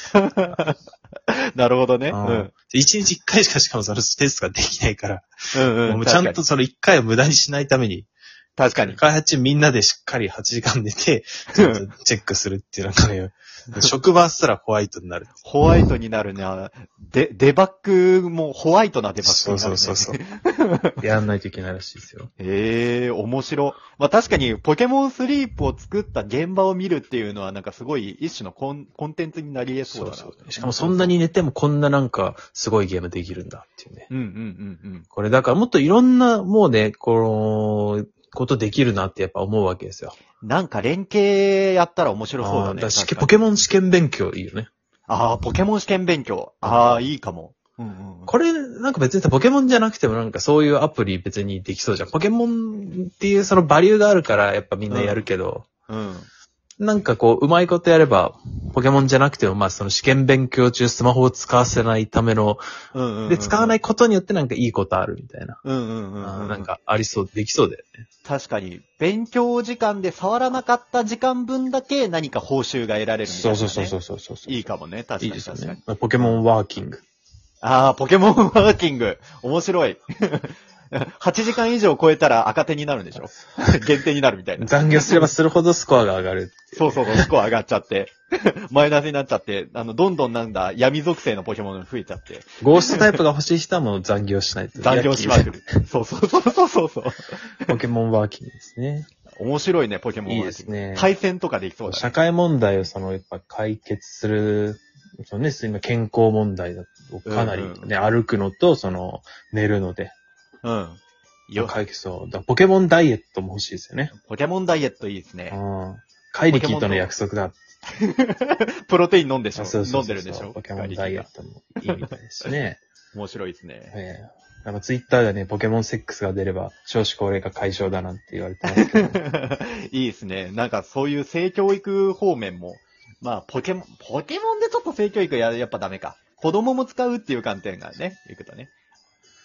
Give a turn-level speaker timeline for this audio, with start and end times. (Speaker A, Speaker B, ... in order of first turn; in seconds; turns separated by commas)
Speaker A: 0.1-2.5, Speaker B: 2.1-8.1, Speaker A: 5.5-6.4, Speaker A: 8.6-9.0, Speaker B: 8.7-15.4, Speaker A: 11.6-11.8, Speaker A: 15.4-20.9, Speaker B: 19.2-20.2, Speaker B: 21.0-22.3, Speaker A: 22.4-31.2, Speaker B: 29.9-34.1, Speaker A: 34.1-35.1, Speaker B: 35.1-40.2, Speaker A: 40.4-43.3, Speaker B: 42.4-44.7, Speaker A: 45.1-48.3, Speaker B: 46.6-47.1, Speaker B: 48.3-55.7, Speaker A: 54.9-55.3, Speaker A: 55.9-56.3, Speaker B: 56.8-62.6, Speaker A: 62.9-63.8, Speaker B: 63.3-65.6, Speaker A: 65.6-66.7, Speaker B: 66.2-68.0, Speaker A: 68.2-76.4, Speaker B: 73.3-74.7, Speaker B: 75.2-77.0, Speaker A: 77.6-85.3, Speaker B: 84.6-87.3, Speaker A: 86.8-93.2, Speaker B: 92.6-95.6, Speaker A: 94.8-97.7, Speaker B: 97.7-99.1, Speaker A: 99.4-102.1, Speaker B: 100.2-101.1, Speaker B: 101.9-110.2, Speaker A: 107.3-107.9, Speaker A: 110.6-111.8, Speaker B: 111.6-114.1, Speaker A: 114.1-115.6, Speaker B: 115.5-117.7, Speaker A: 116.5-117.1, Speaker A: 117.9-121.3, Speaker B: 119.6-122.8, Speaker A: 121.9-122.5, Speaker A: 123.1-124.0, Speaker B: 123.9-129.2, Speaker A: 128.7-138.7